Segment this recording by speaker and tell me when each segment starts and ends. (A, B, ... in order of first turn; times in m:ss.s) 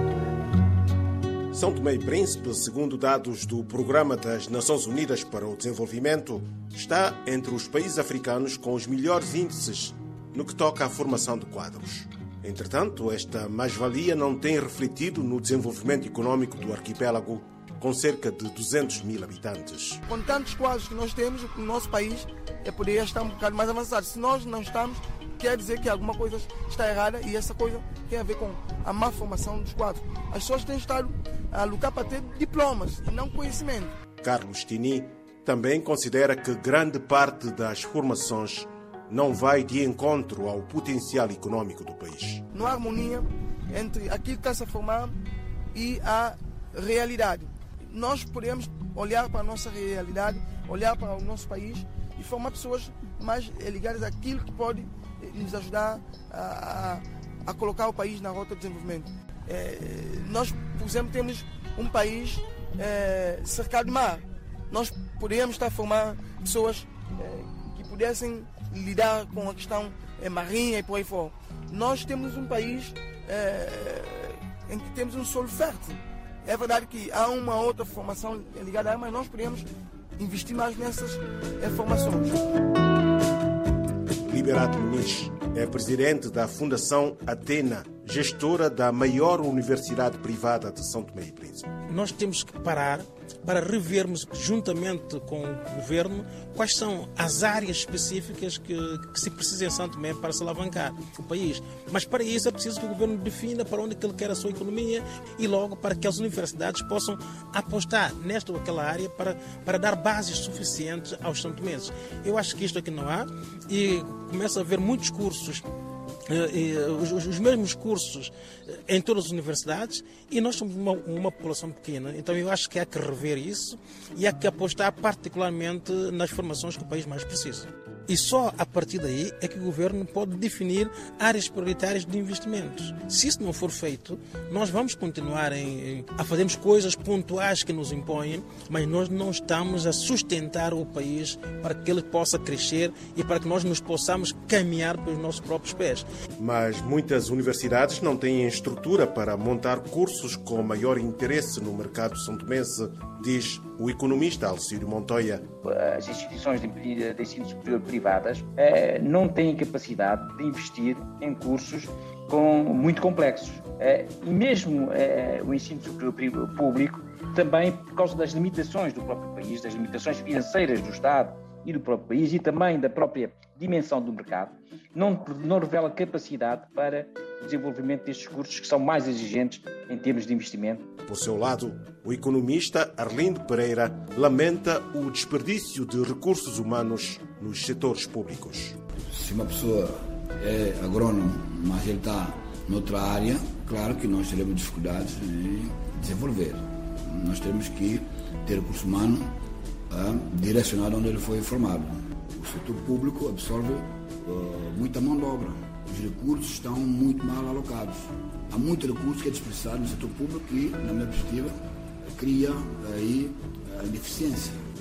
0:01.5-0:20.0 A
0:20.1-0:34.0 B
0:34.2-0:42.4 A
0:42.5-0:45.2 B
0:45.7-1:19.7 B
1:20.2-1:22.4 B
1:24.2-1:31.7 A
1:31.9-1:55.6 C
1:56.3-1:58.3 C
1:58.9-2:26.0 C
2:26.4-2:35.5 A
2:35.6-3:00.8 D
3:01.0-3:08.8 A
3:09.1-3:19.3 E
3:19.9-3:31.5 E
3:32.2-3:34.6 E